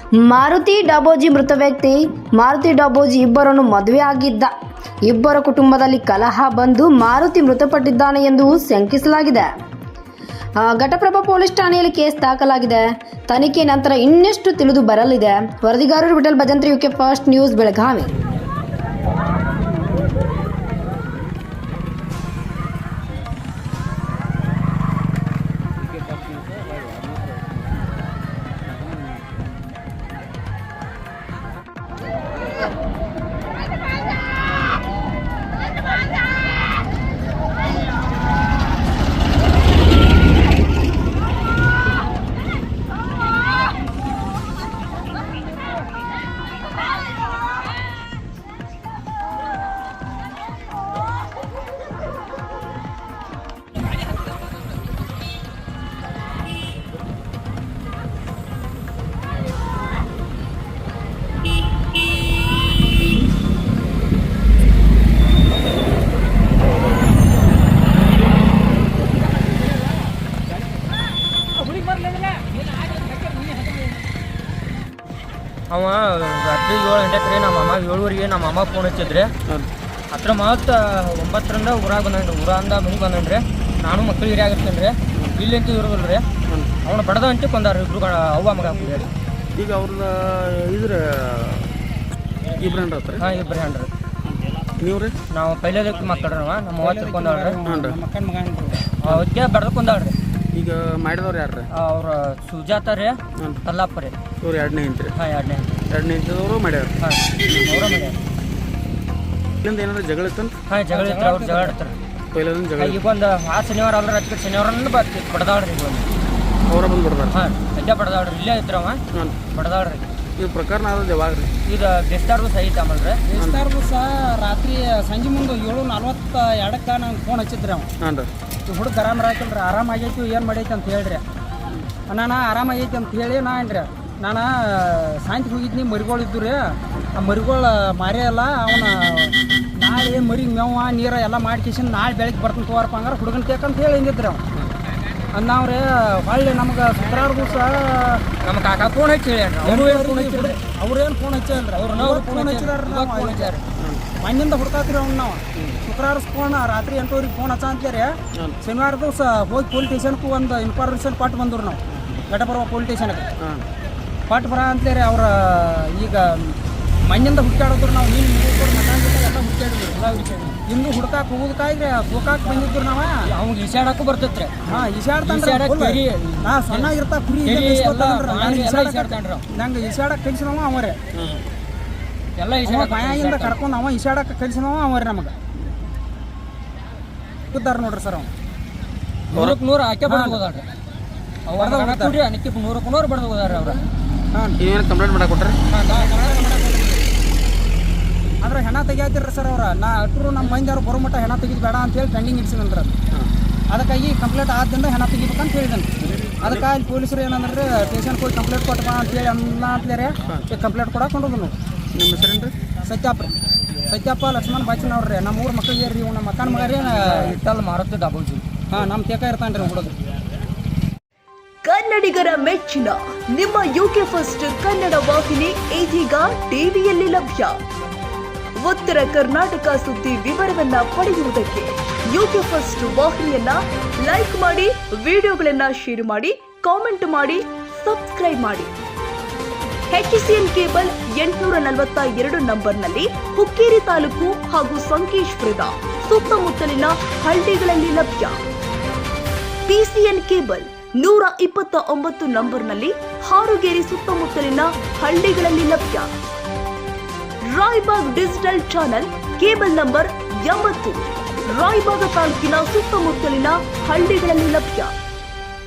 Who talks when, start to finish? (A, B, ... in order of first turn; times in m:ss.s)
0:00.2-0:04.5 A
0:05.0-0:09.5 A
0:10.6-0:18.1 A
1:15.7-1:19.3 B
1:20.1-1:26.2 B
1:26.5-1:26.7 C
1:26.8-1:29.1 B
1:29.6-1:31.7 C
1:32.6-1:33.3 C
1:33.2-1:33.9 B
1:34.8-1:35.2 C
1:35.3-1:37.6 B
1:36.8-1:38.9 D
1:37.7-1:38.0 C
1:39.0-1:40.2 B
1:40.5-1:41.6 C
1:41.7-1:44.1 B
1:44.4-1:45.1 C
1:45.1-1:45.7 B
1:45.9-1:46.9 C
1:47.0-1:48.2 B
1:49.6-1:50.5 C
1:50.7-1:52.0 B
1:50.9-1:51.7 D
1:52.3-1:53.0 C
1:52.8-1:56.1 B
1:56.7-1:57.3 C
1:57.3-2:00.0 B
2:00.4-2:01.5 C
2:01.6-2:03.2 B
2:03.3-2:07.9 D
2:08.0-2:08.3 C
2:08.6-2:11.2 D
2:12.0-2:24.4 D
2:25.3-2:28.2 D
2:28.4-2:30.6 B
2:29.6-2:33.6 D
2:31.7-2:33.6 B
2:33.8-2:34.1 C
2:34.1-2:43.3 D
2:41.9-2:42.2 C
2:43.4-2:43.6 C
2:44.3-2:53.3 D
2:49.9-2:50.6 B
2:53.2-2:54.6 B
2:54.6-3:01.0 D
2:55.2-2:56.9 B
2:57.4-2:59.4 B
3:01.1-3:01.4 C
3:02.4-3:03.6 B
3:02.6-3:05.3 D
3:07.5-3:08.3 D
3:09.3-3:10.7 B
3:10.0-3:10.4 D
3:11.5-3:13.8 B
3:11.6-3:12.2 D
3:14.3-3:14.6 D
3:14.6-3:15.6 C
3:15.7-3:16.7 B
3:15.9-3:17.0 D
3:18.4-3:23.0 D
3:23.7-3:31.6 D
3:26.0-3:26.6 C
3:31.9-3:32.6 C
3:32.7-3:33.3 D
3:33.8-3:37.3 D
3:36.4-3:38.4 B
3:38.7-3:40.0 D
3:41.6-3:47.5 E
3:48.6-3:58.7 E
3:59.9-4:08.4 E
4:09.7-4:16.1 E
4:17.5-4:24.9 E